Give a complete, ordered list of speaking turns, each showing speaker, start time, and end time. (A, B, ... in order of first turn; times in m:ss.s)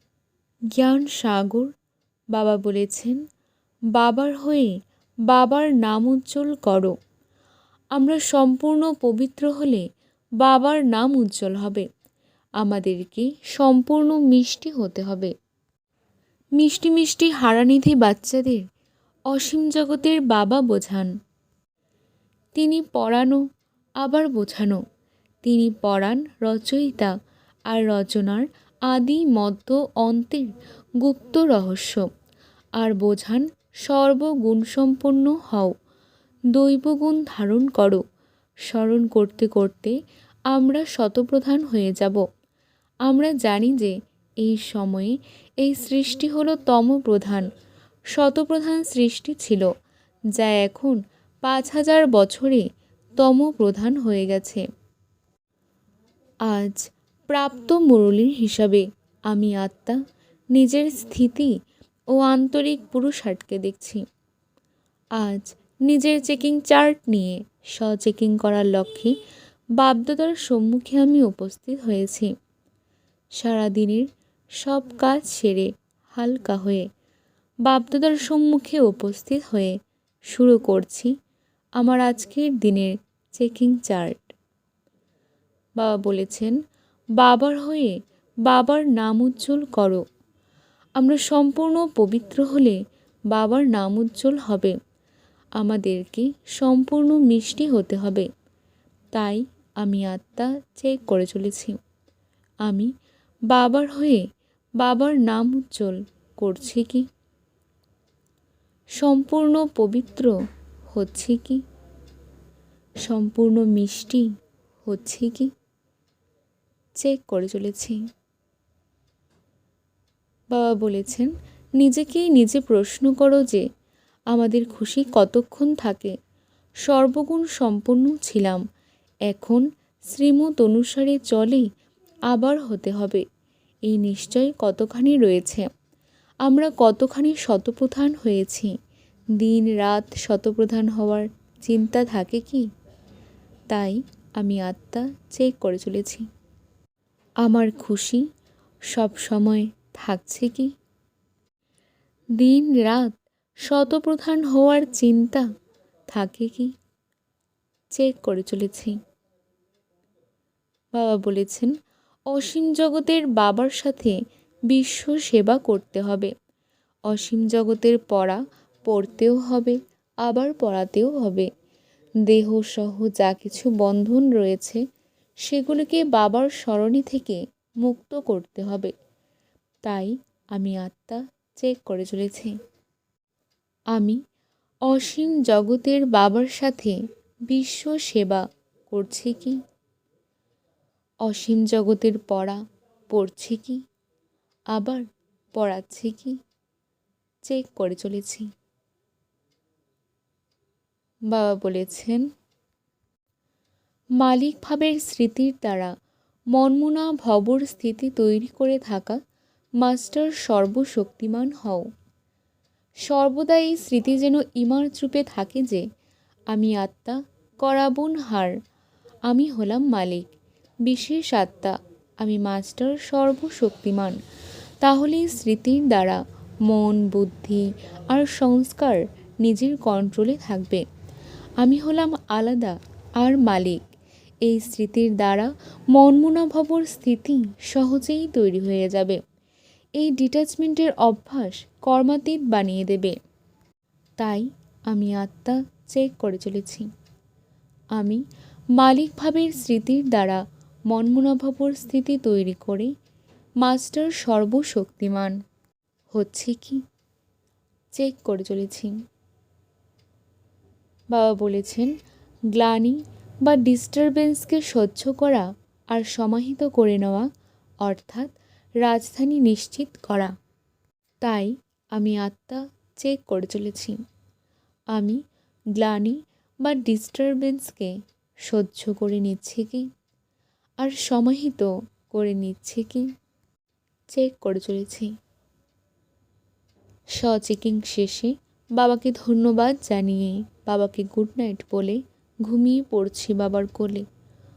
0:00.8-0:01.7 A
0:02.3-0:03.2 A
0:03.9-0:04.7 A
0:05.3-0:06.9 A
0:08.0-0:09.8 A
0:10.4-0:11.9 A
0:12.6-0:15.3 A
0:16.6-0:18.6 A
0:19.3-0:21.1 A
0:22.5-0:23.4 A
0:24.0-0:24.8 A
0:25.4-0:27.1 A
0:27.7-0:32.0 A
0:32.8-0:35.7 A
0:36.5-0:38.0 A
0:38.7-0:40.0 A
0:40.5-0:42.2 A
0:43.0-0:47.5 A
0:48.1-0:49.7 A
0:50.3-0:54.6 A
0:56.5-1:00.0 A
1:00.5-1:01.5 A
1:02.1-1:04.0 A
1:05.2-1:09.1 A
1:09.8-1:12.3 A
1:13.4-1:14.1 A
1:14.6-1:16.9 A
1:17.6-1:19.8 A
1:20.3-1:21.1 A
1:21.8-1:24.2 A
1:25.8-1:26.6 A
1:27.2-1:30.0 A
1:31.0-1:32.8 A
1:33.3-1:34.8 A
1:35.6-1:38.3 A
1:39.1-1:41.8 A
1:43.5-1:44.2 A
1:44.8-1:47.1 A
1:49.0-1:50.3 A
1:50.9-1:51.6 A
1:53.0-1:54.3 A
1:54.8-1:55.5 A
1:57.0-1:58.0 A
2:00.5-2:03.6 A
2:04.3-2:06.1 A
2:06.8-2:08.6 A
2:09.3-2:11.7 A
2:12.3-2:13.2 A
2:13.9-2:15.7 A
2:16.4-2:18.7 A
2:19.4-2:22.6 A
2:23.7-2:26.2 A
2:27.4-2:28.2 A
2:28.9-2:30.7 A
2:32.4-2:35.4 A
2:36.1-2:36.7 A
2:37.9-2:39.0 A
2:41.0-2:41.7 A
2:42.3-2:44.2 A
2:44.7-2:46.3 A
2:47.1-2:51.5 A
2:52.3-2:54.8 A
2:55.4-2:58.9 A
2:59.8-3:02.5 A
3:03.9-3:04.2 A
3:04.9-3:07.0 A
3:07.5-3:09.6 A
3:11.2-3:12.6 A
3:13.1-3:13.8 A
3:14.7-3:15.0 A
3:15.6-3:16.4 A
3:17.4-3:18.5 A
3:21.3-3:22.2 A
3:24.2-3:25.9 A
3:26.5-3:29.2 A
3:29.8-3:31.8 A
3:33.1-3:35.8 A
3:36.5-3:38.5 A
3:39.3-3:40.3 A
3:40.8-3:44.2 A
3:44.8-3:50.8 A
3:51.6-3:53.8 A
3:54.4-3:59.2 A
4:00.0-4:03.2 A
4:04.2-4:06.9 A
4:08.0-4:08.2 A
4:08.8-4:12.9 A
4:13.6-4:15.3 A
4:16.1-4:16.8 A
4:17.9-4:18.9 A
4:21.1-4:21.9 A
4:22.5-4:27.3 A
4:27.8-4:28.3 A
4:28.8-4:30.3 A
4:31.2-4:34.0 A
4:34.9-4:35.2 A
4:35.8-4:37.9 A
4:38.5-4:39.9 A
4:40.8-4:43.1 A
4:44.1-4:45.1 A
4:47.2-4:54.0 A